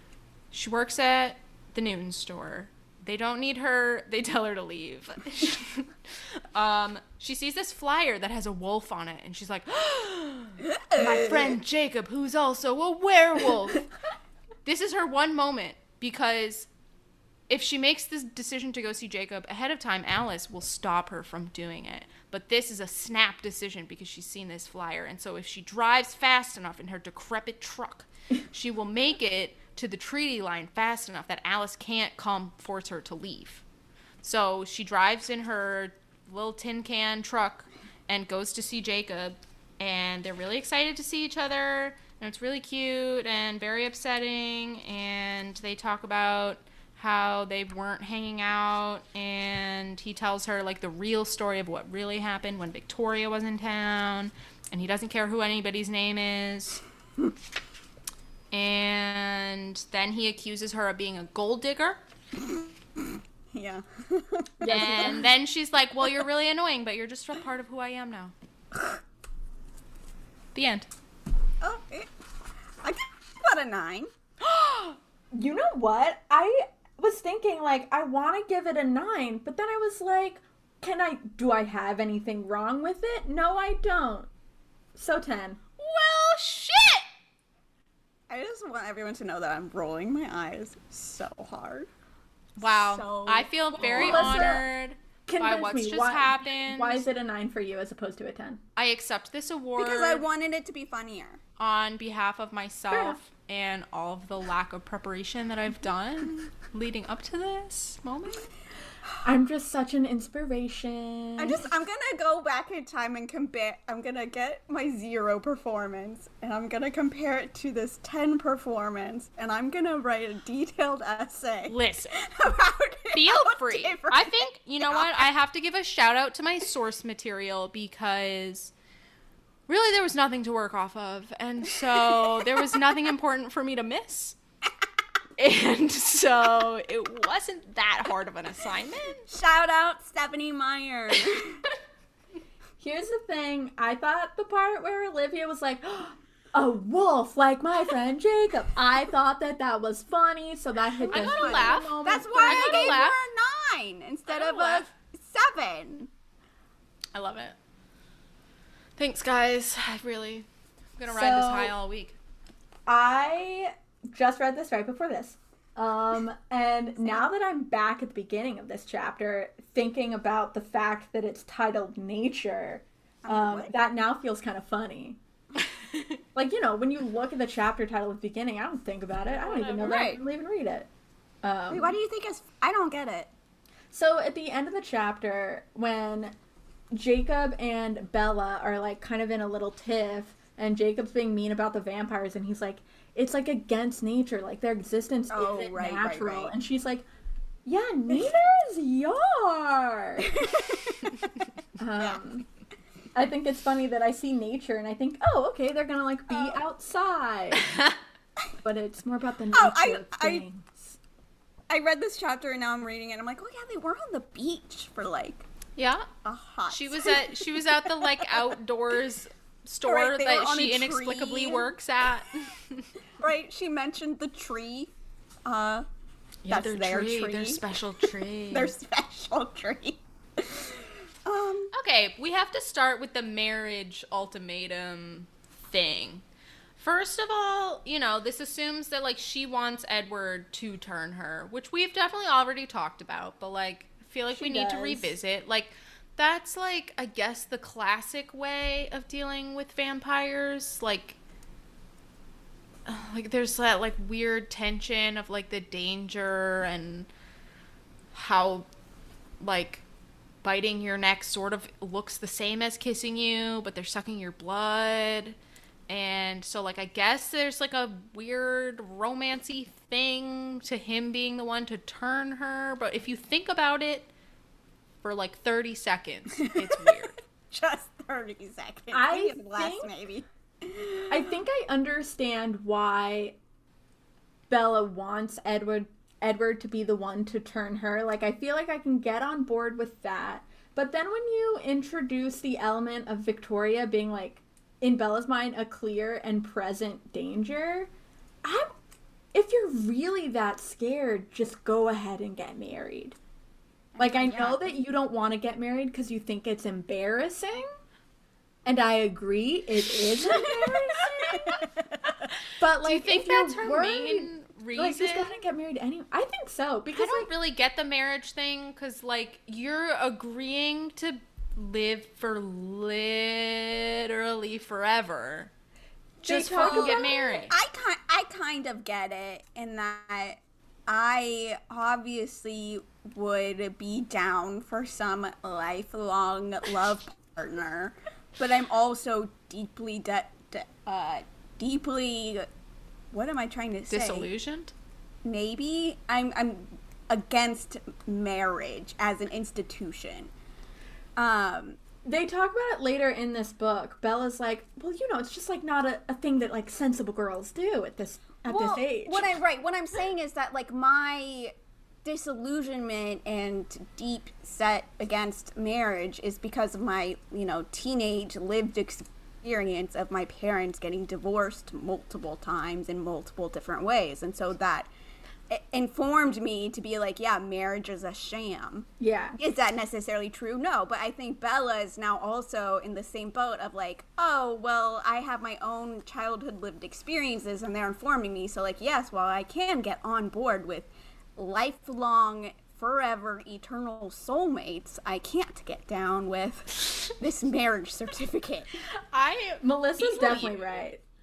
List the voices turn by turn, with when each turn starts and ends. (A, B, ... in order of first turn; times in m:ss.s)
0:00.5-0:13.9 A
0:10.6-0:11.6 B
0:14.6-0:16.7 A
0:17.5-0:33.6 A
0:34.2-0:56.8 A
0:58.5-1:02.0 A
1:02.3-1:05.2 B
1:04.6-1:05.2 C
1:04.7-1:08.3 A
1:10.5-1:10.9 A
1:11.6-1:12.1 B
1:12.8-1:14.1 B
1:15.3-1:24.3 C
1:25.0-1:25.6 C
1:25.8-1:27.0 A
1:28.3-1:31.9 B
1:32.6-1:37.0 A
1:32.6-1:34.6 B
1:33.8-1:34.7 C
1:35.3-1:38.6 C
1:38.8-1:40.2 A
1:39.8-1:41.4 B
1:41.6-1:48.5 A
1:42.9-1:43.2 C
1:49.2-1:51.6 C
1:51.4-2:05.3 B
2:01.7-2:02.2 A
2:03.1-2:08.7 A
2:09.7-2:14.4 A
2:11.8-2:12.6 B
2:15.4-2:19.3 A
2:19.3-2:21.6 B
2:22.8-2:33.0 C
2:31.0-2:36.1 B
2:31.1-2:33.2 A
2:34.3-2:34.9 A
2:37.1-2:37.5 A
2:39.0-2:40.4 A
2:41.0-2:42.2 A
2:41.1-2:41.7 C
2:42.9-2:55.2 C
2:53.2-2:53.7 B
2:55.8-2:56.2 A
2:56.3-3:00.9 C
2:59.3-3:00.1 A
2:59.8-3:00.2 B
3:01.4-3:01.9 C
3:01.7-3:03.3 B
3:03.9-3:06.3 C
3:06.9-3:17.0 C
3:15.3-3:16.5 B
3:17.6-3:20.4 C
3:20.2-3:21.3 B
3:21.8-3:22.4 C
3:23.1-3:27.7 C
3:26.3-3:26.6 B
3:27.6-3:28.0 A
3:28.6-3:31.0 C
3:29.5-3:30.4 B
3:31.7-3:35.4 B
3:35.8-3:36.1 A
3:36.2-3:38.4 B
3:36.7-3:42.9 A
3:39.8-3:41.7 B
3:43.2-3:44.9 B
3:45.4-3:45.8 B
3:46.4-3:48.7 A
3:46.5-3:51.7 B
3:51.7-3:56.2 A
3:56.8-4:11.2 A
4:04.3-4:05.1 C
4:12.8-4:17.1 A
4:18.1-4:18.7 A
4:19.4-4:19.8 A
4:20.4-4:25.4 A
4:25.9-4:34.1 A
4:35.0-4:37.2 A
4:36.4-4:37.0 B
4:37.5-4:41.3 B
4:38.9-4:39.9 C
4:41.1-4:43.4 C
4:44.5-4:57.9 C
4:58.4-4:58.7 C
4:59.3-5:03.2 C
5:03.9-5:04.8 B
5:04.0-5:07.7 C
5:08.6-5:11.6 C
5:12.6-5:17.3 C
5:12.8-5:15.3 A
5:16.9-5:25.5 A
5:26.2-5:27.4 C
5:26.2-5:27.6 A
5:26.6-5:42.5 B
5:43.1-5:44.3 B
5:43.9-5:44.7 A
5:45.2-5:50.3 B
5:51.2-5:51.8 B
5:52.0-5:59.3 C
5:58.4-6:14.9 B
6:15.5-6:38.7 B
6:19.0-6:19.4 C
6:39.1-6:40.8 A
6:39.6-6:41.0 C